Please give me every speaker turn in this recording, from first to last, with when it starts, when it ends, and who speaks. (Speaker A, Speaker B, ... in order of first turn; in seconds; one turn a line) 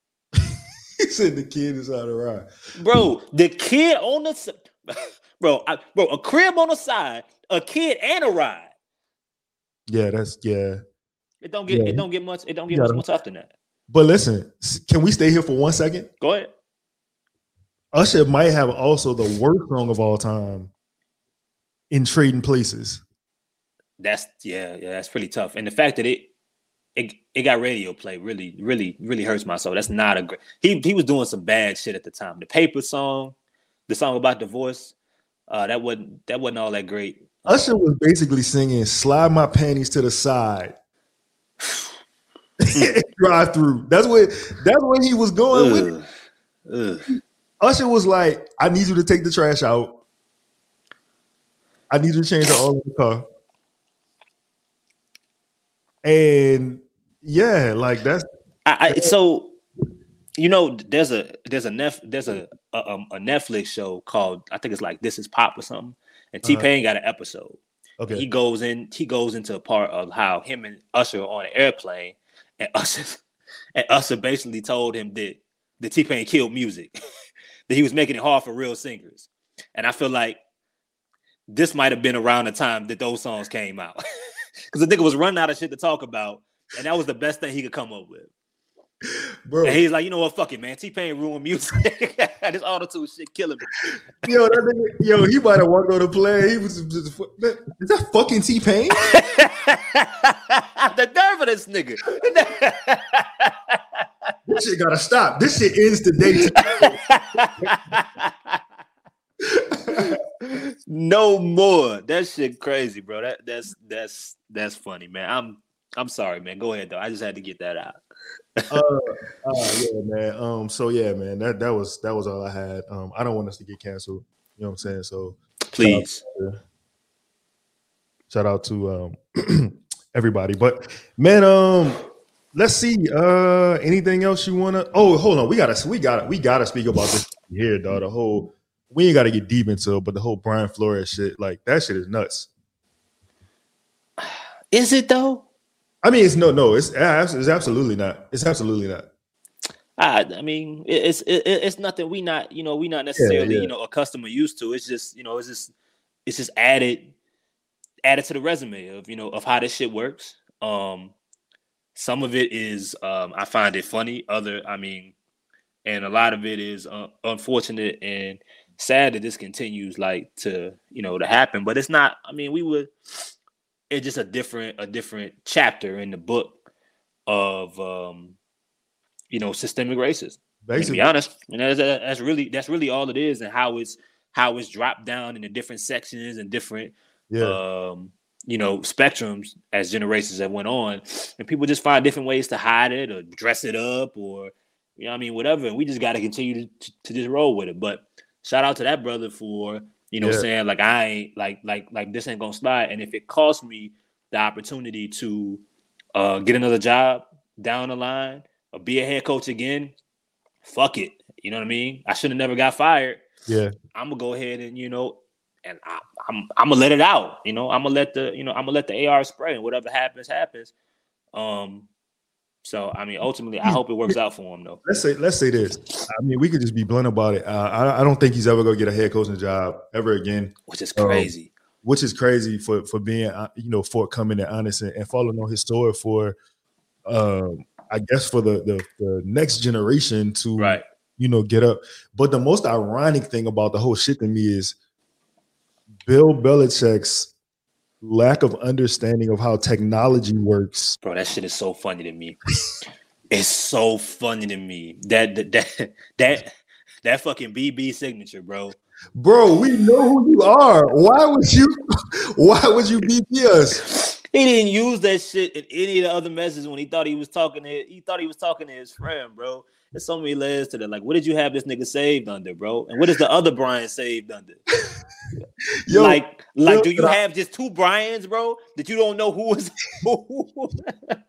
Speaker A: 1.0-2.5
Speaker B: 2.8-8.7
Speaker A: 9.9-10.8
Speaker B: 11.4-13.5
Speaker A: 11.7-12.0
Speaker A: 12.7-13.0
Speaker A: 13.9-16.1
Speaker B: 16.2-16.5
Speaker A: 17.9-20.7
Speaker A: 21.9-23.0
Speaker B: 24.0-26.3
Speaker B: 26.9-33.3
Speaker B: 33.9-34.9
Speaker B: 35.5-37.6
Speaker A: 37.5-40.7
Speaker A: 42.6-45.9
Speaker B: 45.5-46.1
Speaker B: 46.7-47.1
Speaker A: 47.6-50.0
Speaker A: 51.9-53.2
Speaker A: 56.0-58.2
Speaker B: 58.6-59.5
Speaker A: 58.9-59.1
Speaker B: 60.4-67.6
Speaker A: 68.0-68.2
Speaker B: 68.1-73.2
Speaker B: 73.8-76.9
Speaker B: 77.7-80.4
Speaker B: 81.5-84.0
Speaker B: 84.7-88.3
Speaker A: 89.5-89.8
Speaker B: 89.6-93.6
Speaker A: 94.2-99.0
Speaker B: 99.0-104.0
Speaker A: 104.5-107.0
Speaker B: 106.6-108.6
Speaker A: 109.5-110.2
Speaker B: 110.4-118.0
Speaker A: 118.7-126.6
Speaker B: 125.7-126.2
Speaker A: 128.3-132.0
Speaker A: 132.5-142.5
Speaker B: 144.2-145.4
Speaker A: 146.0-149.1
Speaker B: 150.0-155.7
Speaker A: 153.2-153.7
Speaker B: 156.2-157.1
Speaker B: 158.0-161.2
Speaker B: 161.9-165.1
Speaker B: 165.8-172.9
Speaker B: 173.9-176.5
Speaker B: 177.3-178.3
Speaker B: 179.3-205.6
Speaker A: 180.6-181.1
Speaker A: 187.3-187.6
Speaker A: 200.2-200.4
Speaker B: 206.1-209.9
Speaker B: 210.6-213.2
Speaker B: 213.9-220.7
Speaker B: 221.3-221.9
Speaker B: 222.6-224.8
Speaker A: 223.6-224.1
Speaker A: 224.8-231.3
Speaker B: 230.7-231.5
Speaker A: 231.8-236.3
Speaker A: 237.1-244.8
Speaker B: 240.6-240.8
Speaker A: 246.1-247.3
Speaker A: 248.0-251.0
Speaker B: 251.0-252.4
Speaker B: 253.3-256.5
Speaker B: 257.0-258.8
Speaker A: 259.1-261.8
Speaker A: 262.3-263.8
Speaker B: 263.9-274.6
Speaker A: 275.9-277.2
Speaker B: 275.9-281.2